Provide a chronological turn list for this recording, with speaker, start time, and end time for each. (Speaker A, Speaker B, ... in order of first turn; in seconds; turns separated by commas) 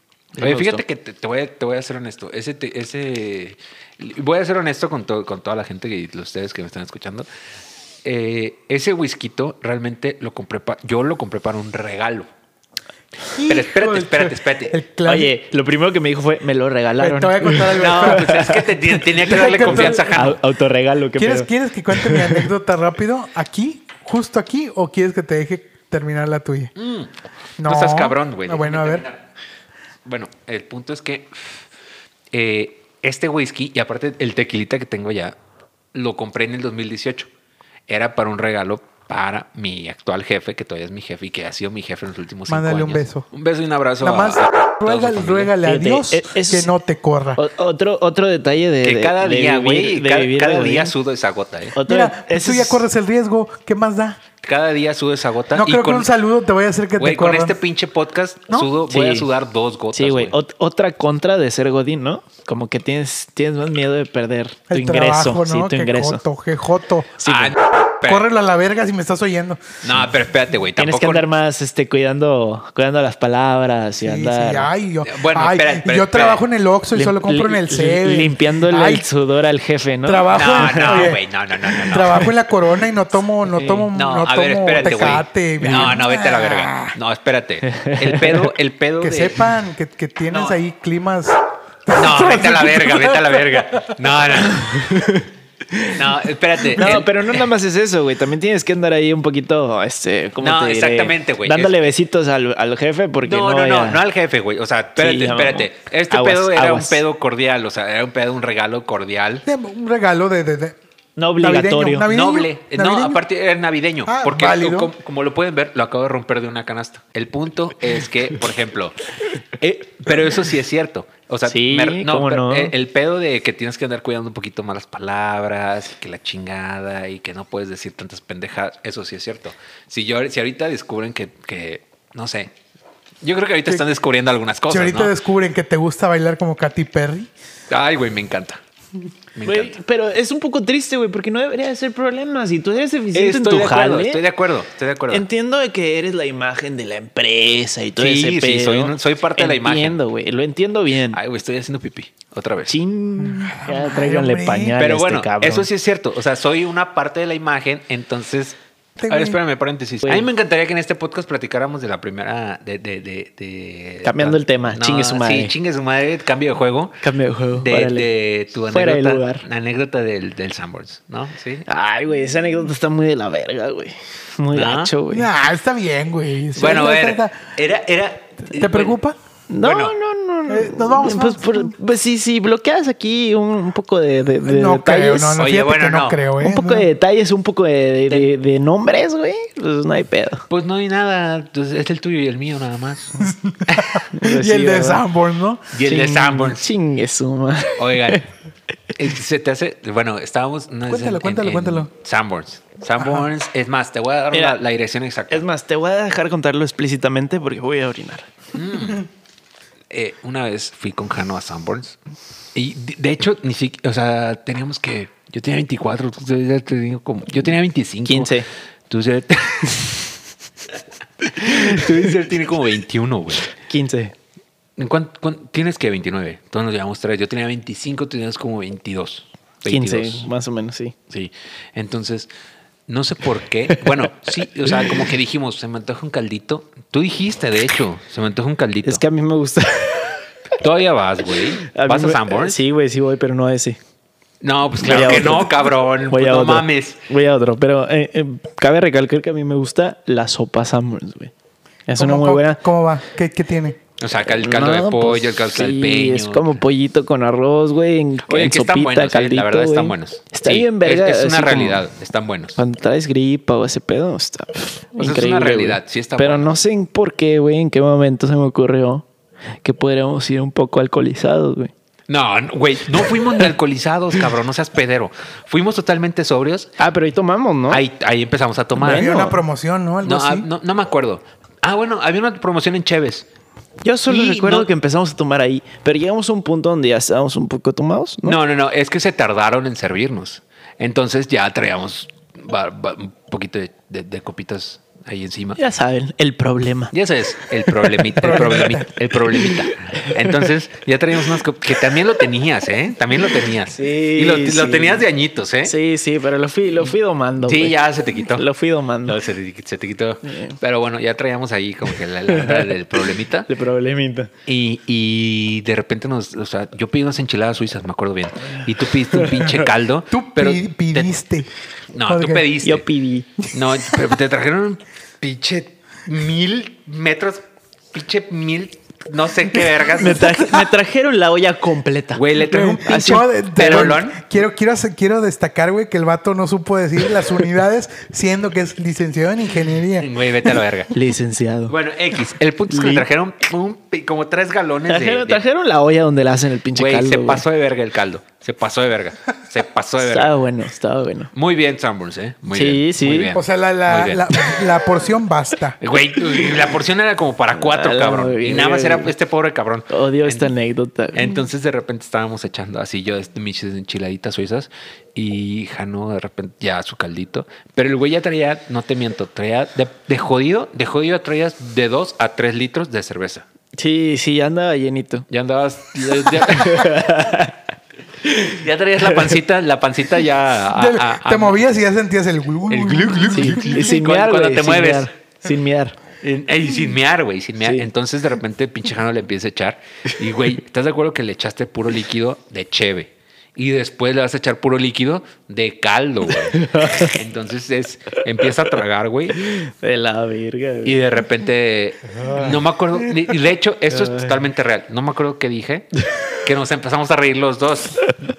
Speaker A: 0.3-0.8, Speaker B: 0.4-7.3, Speaker B: 8.0-12.3, Speaker C: 13.3-15.3, Speaker B: 13.5-14.8, Speaker A: 15.1-22.5, Speaker C: 17.0-18.4, Speaker B: 17.8-20.4, Speaker C: 19.2-20.1, Speaker C: 21.2-26.7, Speaker B: 26.8-27.1, Speaker C: 27.6-29.1, Speaker B: 27.6-29.2, Speaker B: 30.1-31.6, Speaker B: 32.3-35.4, Speaker B: 35.9-37.3, Speaker B: 37.9-45.5, Speaker C: 42.5-43.3, Speaker C: 44.0-47.4, Speaker A: 45.6-46.7, Speaker A: 47.4-50.9, Speaker B: 48.8-51.8, Speaker A: 51.7-52.8, Speaker C: 51.9-54.2, Speaker B: 54.4-56.1, Speaker C: 55.5-57.6, Speaker B: 57.0-60.4, Speaker A: 58.9-59.3, Speaker A: 59.9-66.2, Speaker C: 64.7-67.2, Speaker A: 67.2-67.6, Speaker B: 67.2-68.3, Speaker C: 68.0-69.6, Speaker B: 69.8-71.3, Speaker A: 70.8-74.7, Speaker C: 74.0-79.1, Speaker B: 75.0-76.4, Speaker A: 76.9-81.2, Speaker C: 80.1-87.0, Speaker B: 80.3-82.3, Speaker A: 83.5-83.9, Speaker B: 83.9-89.5, Speaker A: 87.7-88.5, Speaker C: 89.0-93.6, Speaker B: 91.9-95.0, Speaker A: 94.7-96.0, Speaker B: 95.9-97.3, Speaker A: 96.8-104.0, Speaker B: 100.4-101.8, Speaker B: 103.2-109.5, Speaker A: 105.0-107.0, Speaker C: 109.5-110.8, Speaker A: 111.2-112.1, Speaker C: 111.4-113.2, Speaker B: 112.1-119.0, Speaker C: 114.1-114.9, Speaker B: 119.6-132.5, Speaker A: 121.5-122.7, Speaker B: 133.2-135.1, Speaker C: 134.7-137.3, Speaker B: 137.7-138.6, Speaker B: 139.3-139.8, Speaker A: 139.4-144.2, Speaker B: 143.1-145.2, Speaker A: 145.1-151.2, Speaker B: 148.0-150.0, Speaker B: 151.1-152.8, Speaker A: 152.7-155.7, Speaker C: 153.2-154.8, Speaker B: 154.8-158.6, Speaker C: 159.0-159.4, Speaker B: 159.1-167.0, Speaker A: 164.0-165.5, Speaker A: 167.0-168.1, Speaker B: 167.5-171.7, Speaker A: 168.7-169.4, Speaker A: 171.7-175.3, Speaker B: 174.5-174.9, Speaker C: 175.1-177.3, Speaker B: 176.6-178.9, Speaker C: 178.5-179.2, Speaker A: 179.5-185.4, Speaker B: 179.6-179.9, Speaker C: 180.5-181.7, Speaker C: 184.4-186.9, Speaker B: 185.4-186.2, Speaker A: 186.4-190.4, Speaker B: 190.5-194.0, Speaker C: 193.2-195.7, Speaker A: 194.1-195.0, Speaker B: 195.7-196.7, Speaker A: 195.8-198.2, Speaker B: 197.8-198.2, Speaker B: 199.0-205.4, Speaker C: 200.9-201.9, Speaker C: 203.0-203.3, Speaker A: 204.3-204.6, Speaker A: 205.3-208.3, Speaker B: 208.6-209.1, Speaker B: 209.9-212.0, Speaker B: 212.6-218.4, Speaker A: 218.1-218.5, Speaker B: 218.9-220.1, Speaker B: 221.2-223.5, Speaker A: 221.6-221.9, Speaker A: 223.5-224.1, Speaker B: 224.8-230.3, Speaker A: 229.7-230.9, Speaker B: 231.1-232.3, Speaker B: 232.9-239.0, Speaker A: 234.7-235.0, Speaker A: 238.8-240.2, Speaker B: 240.6-242.6, Speaker A: 241.6-243.8, Speaker B: 244.4-247.0, Speaker A: 244.8-251.3, Speaker A: 251.9-252.6, Speaker C: 252.0-253.8, Speaker B: 254.0-256.6, Speaker A: 254.3-261.8, Speaker B: 258.3-262.6, Speaker A: 262.6-269.1, Speaker B: 265.0-266.6, Speaker A: 269.6-271.7, Speaker B: 272.1-276.8, Speaker A: 276.8-277.8, Speaker B: 277.7-279.2, Speaker A: 278.8-279.4, Speaker C: 278.8-280.5, Speaker B: 280.0-283.3, Speaker A: 283.8-288.4, Speaker B: 284.1-284.7, Speaker B: 288.2-295.6, Speaker A: 295.6-296.9, Speaker B: 296.9-305.7, Speaker A: 297.7-298.5, Speaker C: 298.2-298.9, Speaker A: 299.7-300.3, Speaker A: 303.7-305.1, Speaker A: 305.6-307.8, Speaker B: 307.4-308.5, Speaker A: 308.3-309.2, Speaker B: 309.1-313.5, Speaker A: 310.2-310.6, Speaker A: 312.3-312.7, Speaker A: 313.5-314.3, Speaker B: 314.5-321.1, Speaker A: 319.1-319.6, Speaker C: 320.1-321.5, Speaker B: 321.9-322.9, Speaker C: 322.1-322.5, Speaker A: 322.6-323.3, Speaker B: 323.5-327.4, Speaker C: 323.5-324.2, Speaker B: 327.9-330.6, Speaker A: 329.9-333.2, Speaker B: 332.1-334.2, Speaker C: 332.5-340.1, Speaker B: 340.0-340.9, Speaker A: 340.9-341.8, Speaker B: 341.7-345.4, Speaker A: 342.7-343.1, Speaker A: 344.9-347.4, Speaker B: 346.8-350.3, Speaker A: 350.0-351.3, Speaker B: 351.3-354.3, Speaker A: 352.5-353.3, Speaker C: 353.3-355.8, Speaker B: 355.8-360.5, Speaker A: 357.6-359.1, Speaker A: 359.9-361.4, Speaker B: 361.1-373.4, Speaker A: 373.8-375.3, Speaker B: 375.3-377.0, Speaker A: 376.3-377.6, Speaker A: 378.2-378.6, Speaker B: 378.4-381.6, Speaker C: 380.8-383.9, Speaker B: 382.7-385.1, Speaker A: 383.3-386.0, Speaker B: 386.2-399.4, Speaker A: 396.4-397.2, Speaker A: 399.4-401.0, Speaker B: 400.8-408.1, Speaker A: 402.2-402.5, Speaker A: 403.9-404.4